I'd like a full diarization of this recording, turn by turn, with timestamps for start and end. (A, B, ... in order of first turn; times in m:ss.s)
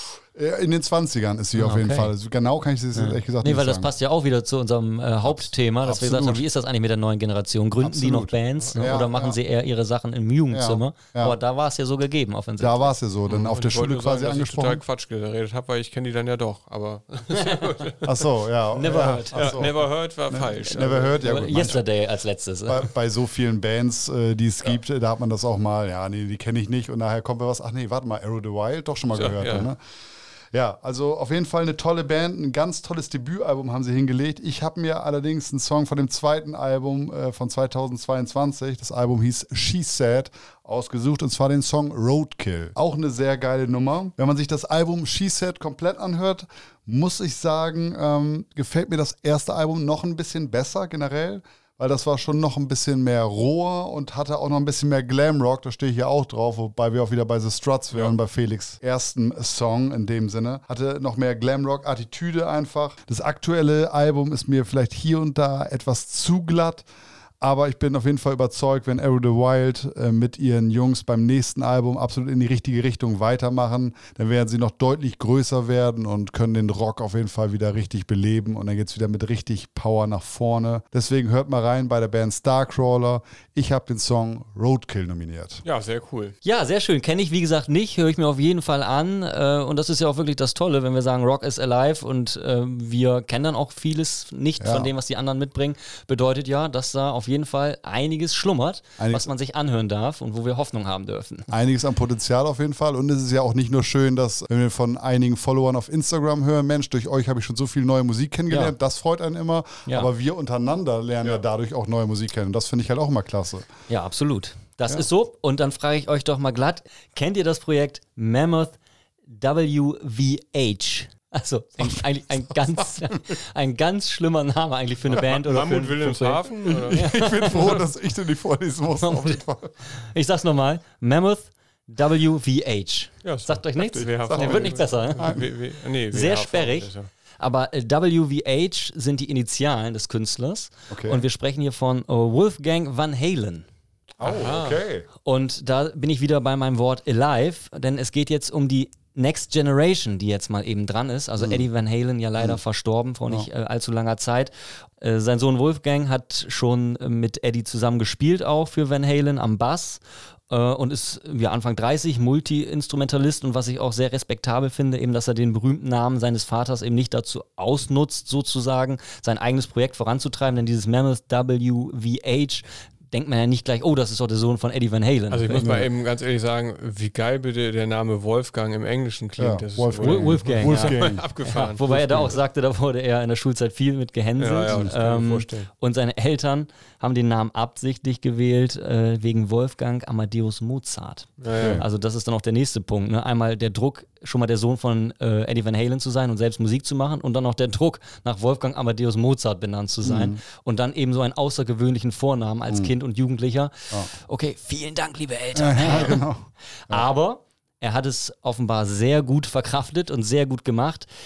0:00.3-0:03.9 A
0:01.5-0:02.1 B
0:02.9-0:12.9 B
0:05.2-0:06.4 A
0:07.8-0:09.4 A
0:08.6-0:08.9 C
0:10.5-0:11.4 A
0:12.6-0:14.8 A
0:13.3-0:18.3 C
0:17.4-0:17.7 B
0:18.0-0:21.8 A
0:18.7-0:19.7 B
0:18.9-0:21.8 C
0:21.2-0:22.9 B
0:22.7-0:29.8 A
0:29.1-0:29.7 C
0:30.5-1:06.8 A
1:07.4-1:25.6 A
1:25.6-1:26.3 C
1:26.4-1:41.5 B
1:34.6-1:34.9 A
1:39.0-1:39.3 A
1:41.5-1:53.6 A
1:53.9-2:07.8 B
2:01.8-2:03.4 A
2:05.1-2:07.8 C
2:06.7-2:09.7 A
2:09.0-2:15.4 B
2:13.2-2:17.1 C
2:14.0-2:15.4 A
2:16.1-2:23.7 B
2:20.9-2:21.2 A
2:24.2-2:25.0 A
2:24.2-2:24.8 C
2:25.2-2:55.7 B
2:55.3-3:02.4 C
2:55.6-2:55.9 A
2:59.4-3:01.2 A
3:00.0-3:26.3 B
3:04.4-3:05.7 C
3:11.4-3:11.8 C
3:11.6-3:11.8 A
3:20.0-3:20.4 A
3:25.5-3:27.1 A
3:26.9-3:31.1 B